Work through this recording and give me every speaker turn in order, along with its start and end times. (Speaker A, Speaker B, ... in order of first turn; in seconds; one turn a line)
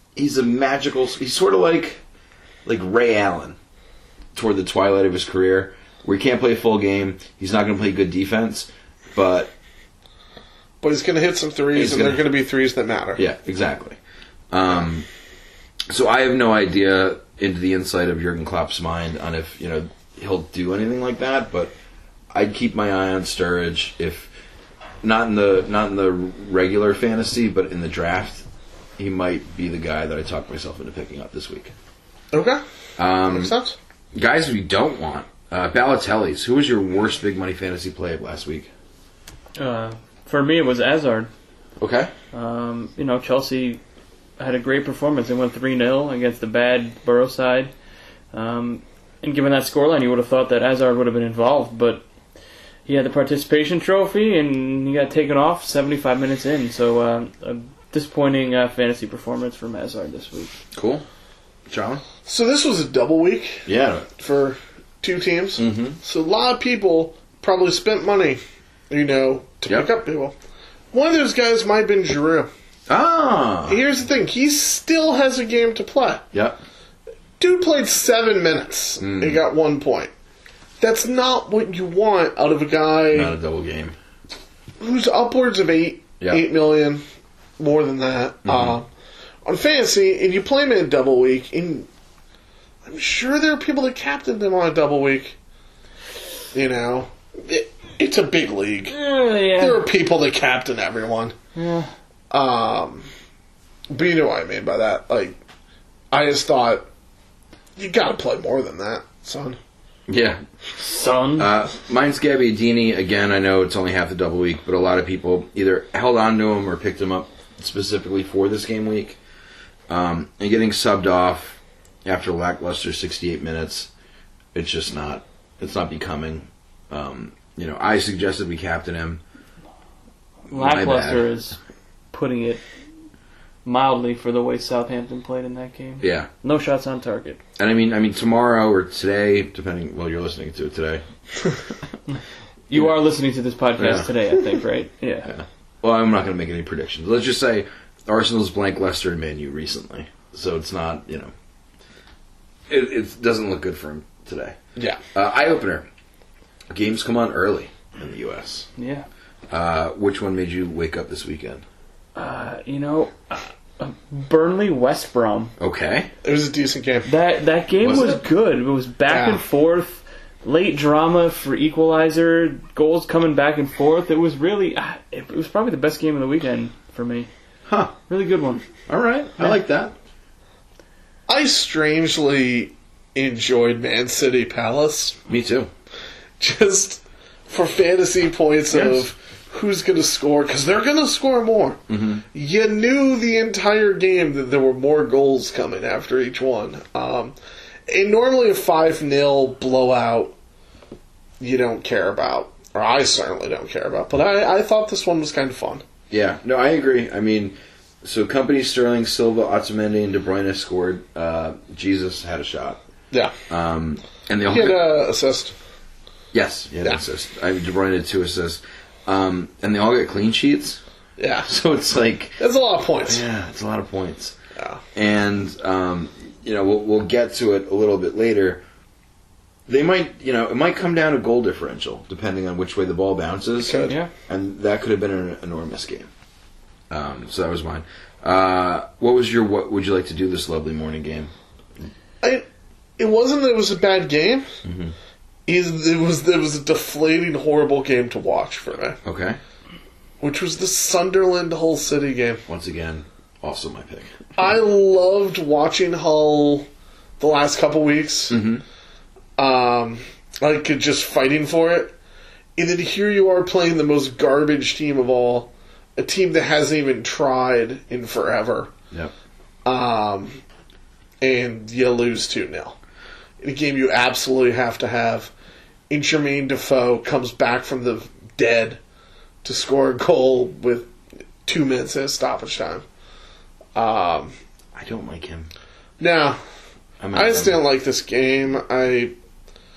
Speaker A: 0.1-2.0
Speaker A: 2.6-3.6
Speaker A: 4.3-9.5
Speaker B: 10.8-13.2
Speaker A: 11.7-12.2
Speaker A: 13.2-14.0
Speaker A: 14.5-15.1
Speaker A: 15.9-21.7
Speaker A: 22.3-24.3
Speaker A: 25.0-28.4
Speaker A: 29.0-31.7
Speaker B: 32.3-32.6
Speaker A: 33.0-33.5
Speaker B: 33.3-33.8
Speaker A: 34.1-38.7
Speaker C: 39.6-41.3
Speaker A: 41.8-42.1
Speaker C: 42.3-43.8
Speaker C: 44.4-47.7
Speaker C: 48.3-52.0
Speaker C: 52.9-60.5
Speaker A: 60.7-61.0
Speaker A: 61.7-62.0
Speaker B: 62.2-63.6
Speaker A: 63.6-64.1
Speaker B: 64.2-70.3
Speaker A: 65.6-66.0
Speaker B: 70.9-72.5
Speaker A: 72.9-73.8
Speaker B: 73.7-76.2
Speaker A: 76.3-76.6
Speaker B: 77.4-80.1
Speaker A: 79.0-79.4
Speaker B: 80.8-83.3
Speaker A: 83.1-83.9
Speaker B: 84.8-87.0
Speaker B: 87.6-88.9
Speaker A: 88.4-88.8
Speaker B: 89.4-91.9
Speaker B: 92.8-95.3
Speaker B: 96.5-99.0
Speaker C: 98.9-99.8
Speaker B: 99.5-101.3
Speaker C: 101.5-101.9
Speaker B: 102.3-103.0
Speaker B: 103.9-105.4
Speaker B: 106.1-106.9
Speaker B: 107.8-109.6
Speaker A: 110.1-110.4
Speaker C: 110.8-111.5
Speaker A: 111.4-119.2
Speaker A: 119.9-123.9
Speaker A: 124.5-129.2
Speaker C: 130.5-131.6
Speaker A: 130.5-131.3
Speaker C: 132.1-132.6
Speaker C: 133.6-137.4
Speaker A: 136.0-136.3
Speaker A: 137.6-141.0
Speaker C: 142.7-145.3
Speaker A: 143.8-144.1
Speaker A: 145.2-151.3
Speaker A: 152.7-154.6
Speaker A: 155.1-155.9
Speaker A: 156.7-158.7
Speaker C: 158.8-159.1
Speaker A: 159.5-161.6
Speaker C: 162.1-165.5
Speaker A: 165.6-166.1
Speaker B: 166.2-167.1
Speaker C: 167.1-177.3
Speaker A: 167.8-168.2
Speaker B: 169.1-169.4
Speaker A: 177.7-177.9
Speaker C: 178.1-178.7
Speaker A: 178.9-179.9
Speaker B: 181.3-185.2
Speaker A: 185.3-185.7
Speaker B: 186.4-191.8
Speaker A: 188.7-189.0
Speaker A: 191.9-192.2
Speaker B: 192.3-197.3
Speaker B: 197.9-200.3
Speaker B: 201.4-205.8
Speaker A: 206.1-212.8
Speaker A: 213.5-214.8
Speaker B: 214.5-215.5
Speaker A: 216.3-220.8
Speaker B: 221.2-221.5
Speaker A: 221.4-222.4
Speaker B: 222.4-223.2
Speaker A: 223.0-224.3
Speaker B: 224.6-224.8
Speaker A: 224.9-228.6
Speaker A: 229.7-236.1
Speaker B: 233.6-234.0
Speaker A: 236.9-241.3
Speaker B: 243.0-244.5
Speaker A: 244.6-244.9
Speaker B: 245.4-249.0
Speaker A: 249.0-249.4
Speaker B: 250.2-252.4
Speaker A: 252.5-254.2
Speaker B: 254.4-256.7
Speaker B: 257.2-258.4
Speaker A: 258.3-258.6
Speaker B: 259.4-261.9
Speaker B: 262.6-268.7
Speaker B: 269.6-270.4
Speaker B: 271.2-272.8
Speaker B: 273.4-275.3
Speaker B: 275.9-278.8
Speaker B: 279.4-280.9
Speaker B: 281.4-282.8
Speaker B: 283.7-284.3
Speaker A: 284.7-285.5
Speaker B: 286.0-286.4
Speaker A: 287.0-287.6
Speaker B: 287.1-289.1